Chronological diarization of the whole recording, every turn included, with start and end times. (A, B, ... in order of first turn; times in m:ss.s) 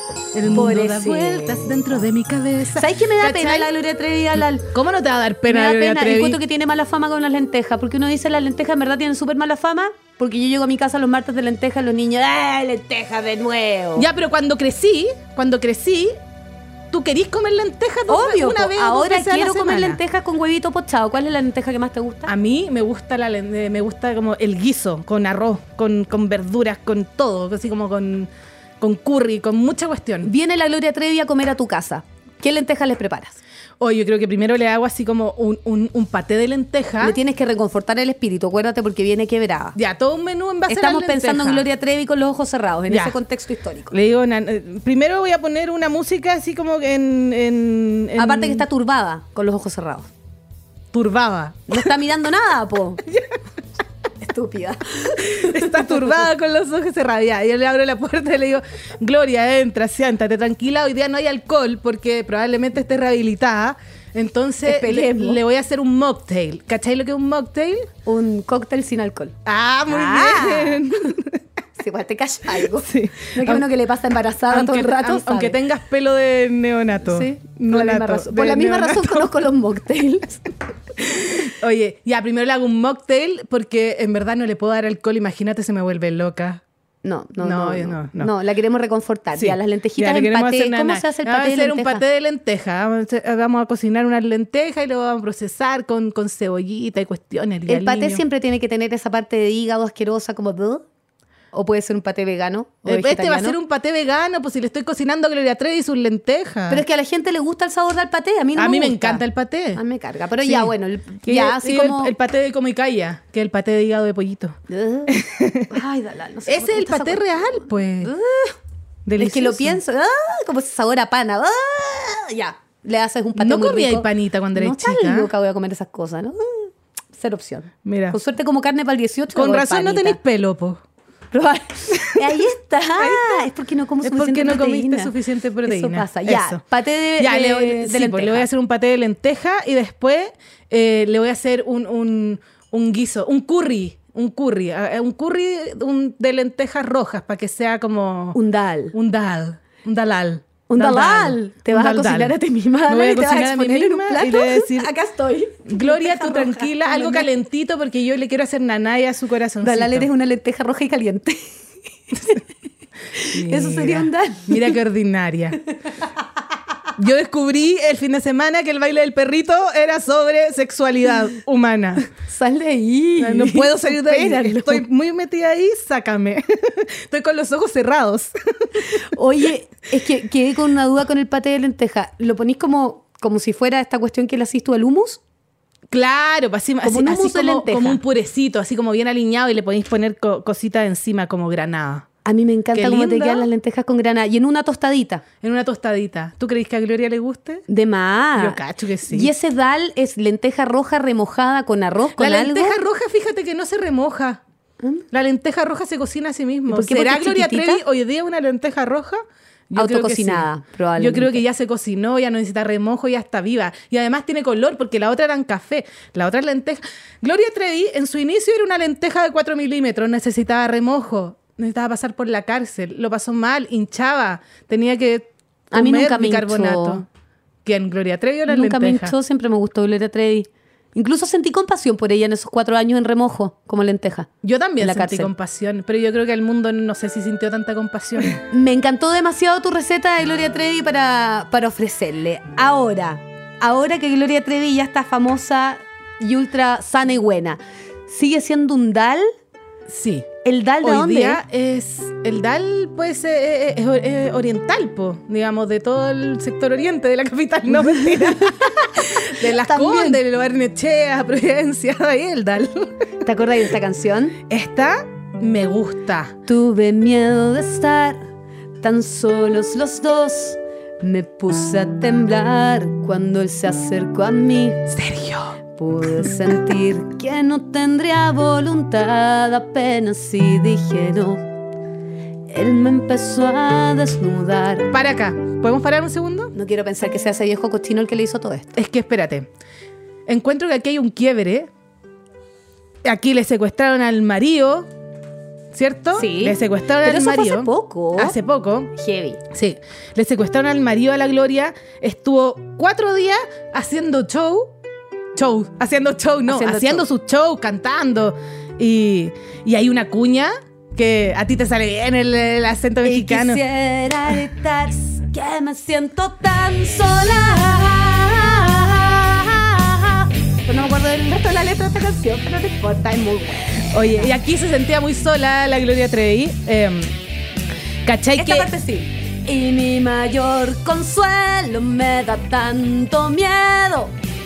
0:00.3-0:03.7 A
0:00.5-0:01.9 B
0:02.8-0:04.7 B
0:04.7-0:06.4 A
0:05.5-0:14.1 B
0:14.0-0:16.1 A
0:16.9-0:20.0 A
0:18.1-0:22.3 B
0:22.2-0:30.3 A
0:30.2-0:33.4 B
0:33.8-0:37.2 A
0:37.0-0:39.8 B
0:39.8-0:41.6 A
0:40.7-0:43.9 B
0:42.9-0:43.2 A
0:43.9-0:48.6 A
0:48.2-0:50.1 B
0:50.9-0:51.8 A
0:51.7-0:53.0 B
0:54.2-0:56.2 B
0:55.2-1:07.9 A
1:04.6-1:05.4 B
1:08.0-1:09.4 B
1:09.4-1:11.4 A
1:09.9-1:10.8 B
1:11.8-1:15.6 B
1:12.6-1:13.6 A
1:14.5-1:19.3 A
1:17.0-1:20.5 B
1:21.4-1:26.6 A
1:27.0-1:32.0 B
1:27.4-1:28.3 A
1:29.3-1:38.2 A
1:37.7-1:40.8 B
1:41.5-1:43.6 B
1:42.8-1:46.8 A
1:46.7-1:49.2 B
1:48.6-1:49.8 A
1:49.8-1:52.1 B
1:50.4-1:55.7 A
1:54.7-1:58.6 B
1:56.5-1:58.1 A
1:59.0-1:59.8 A
1:59.2-2:10.2 B
2:03.4-2:05.3 A
2:07.8-2:08.2 A
2:09.3-2:10.8 A
2:11.3-2:18.5 B
2:11.9-2:12.4 A
2:13.0-2:13.5 A
2:14.0-2:16.6 A
2:17.2-2:28.4 A
2:28.3-2:28.9 B
2:28.9-2:32.3 A
2:30.7-2:37.3 B
2:32.9-2:34.9 A
2:35.7-2:40.1 A
2:39.6-2:41.5 B
2:42.1-2:42.4 B
2:43.1-2:44.8 B
2:43.3-2:45.6 A
2:47.0-2:52.1 A
2:52.3-2:54.8 B
2:53.2-2:58.9 A
2:59.0-3:05.2 B
3:05.9-3:12.1 A
3:06.8-3:08.0 B
3:12.2-3:15.2 B
3:12.7-3:13.5 A
3:15.4-3:17.6 A
3:17.7-3:22.8 B
3:18.4-3:19.3 A
3:22.2-3:24.4 A
3:25.1-3:47.0 A
3:26.7-3:27.8 B
3:29.8-3:31.4 B
3:45.7-3:47.0 B
3:47.6-3:49.1 A
3:48.5-3:54.3 B
3:54.4-3:58.4 A
3:54.8-3:55.3 B
3:58.5-4:09.3 B
4:09.9-4:10.3 A
4:10.4-4:11.4 B
4:10.8-4:22.9 A
4:17.8-4:20.2 B
4:23.2-4:24.4 B
4:24.5-4:26.3 A
4:26.4-4:28.2 B
4:28.8-4:34.8 B
4:34.9-4:35.6 A
4:35.8-4:41.4 B
4:42.5-4:44.9 B
4:44.9-4:46.5 A
4:46.5-4:48.7 B
4:48.7-4:49.5 A
4:50.3-4:51.7 A
4:53.0-4:54.9 A
4:55.7-4:58.9 A
4:56.1-4:58.4 B
4:58.9-4:59.4 B
4:59.5-5:04.7 A
5:05.3-5:13.6 A
5:06.5-5:07.0 B
5:13.0-5:24.3 B
5:23.9-5:27.1 A
5:28.0-5:28.7 A
5:28.4-5:34.1 B